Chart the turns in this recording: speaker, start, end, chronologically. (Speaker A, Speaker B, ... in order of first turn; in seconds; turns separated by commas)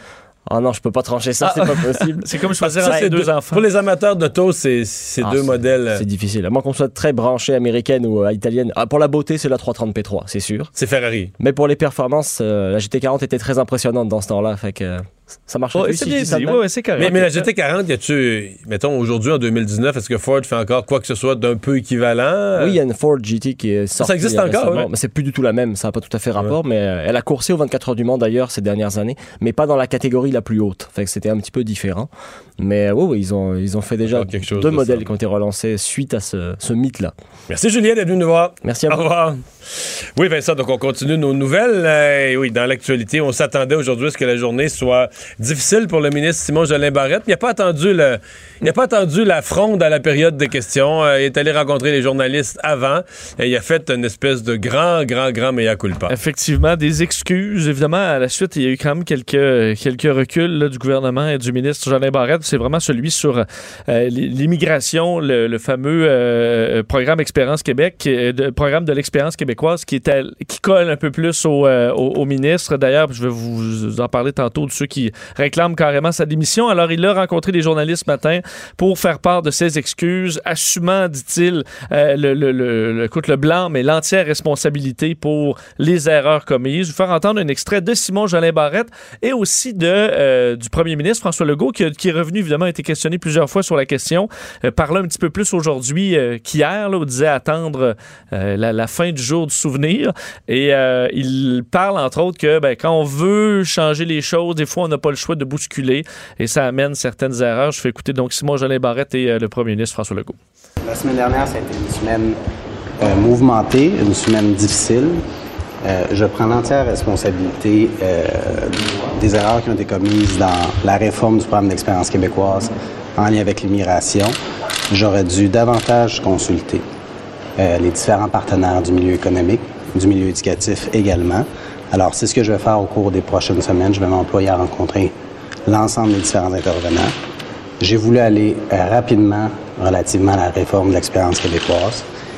Speaker A: 0.5-2.3, Speaker B: 1.4-3.6, Speaker C: 2.6-6.0, Speaker A: 5.2-10.7, Speaker C: 10.8-11.3, Speaker A: 11.4-17.2, Speaker B: 15.7-17.4, Speaker C: 17.0-22.8, Speaker A: 22.6-37.1, Speaker C: 24.0-24.9, Speaker C: 34.1-35.1, Speaker C: 37.5-56.1, Speaker A: 38.6-39.0, Speaker B: 56.1-110.4, Speaker D: 110.8-112.4, Speaker D: 113.0-115.2, Speaker D: 115.8-124.4, Speaker D: 124.9-126.8, Speaker D: 127.6-135.1, Speaker D: 135.7-137.2, Speaker D: 137.8-142.1